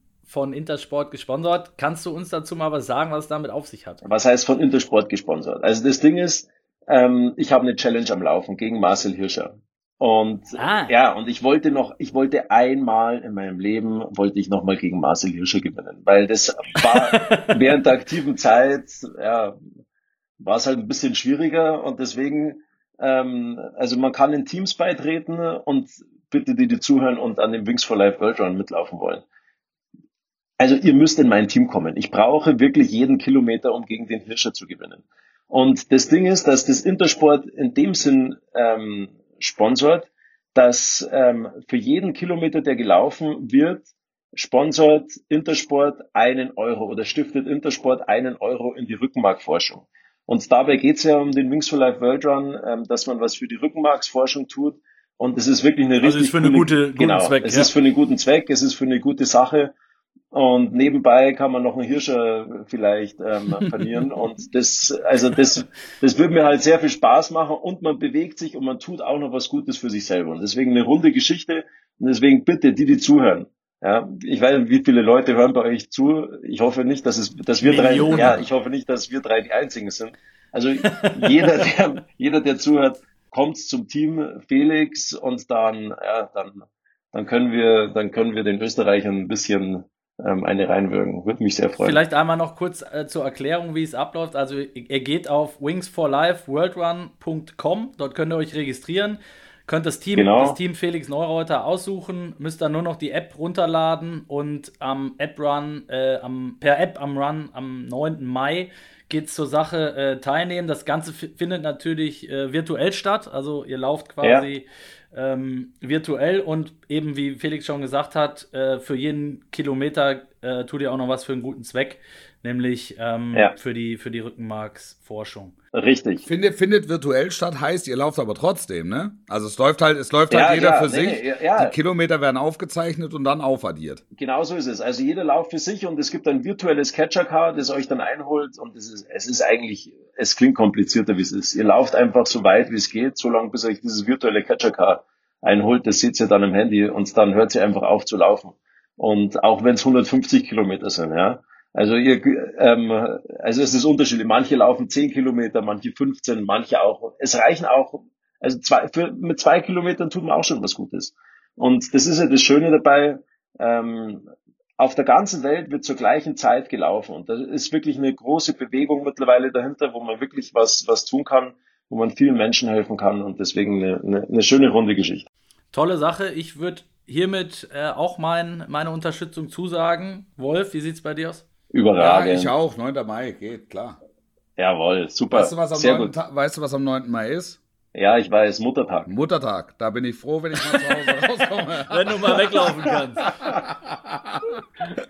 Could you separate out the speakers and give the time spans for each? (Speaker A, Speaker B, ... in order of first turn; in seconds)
Speaker A: 0.3-4.0, 10.6-10.9, 16.9-17.6, 56.0-57.7, 77.6-78.4, 80.8-81.5, 91.8-125.5, 175.7-181.5, 191.9-193.3
Speaker B: 4.0-19.6, 20.4-29.2, 30.6-59.7, 60.3-92.0, 100.2-100.6, 125.7-126.2, 130.3-131.8, 134.2-164.2, 164.8-175.3, 181.7-182.5, 184.6-186.1, 187.9-189.1
Speaker C: 126.2-134.0, 182.0-184.0, 185.3-187.6, 189.1-192.4, 193.2-194.5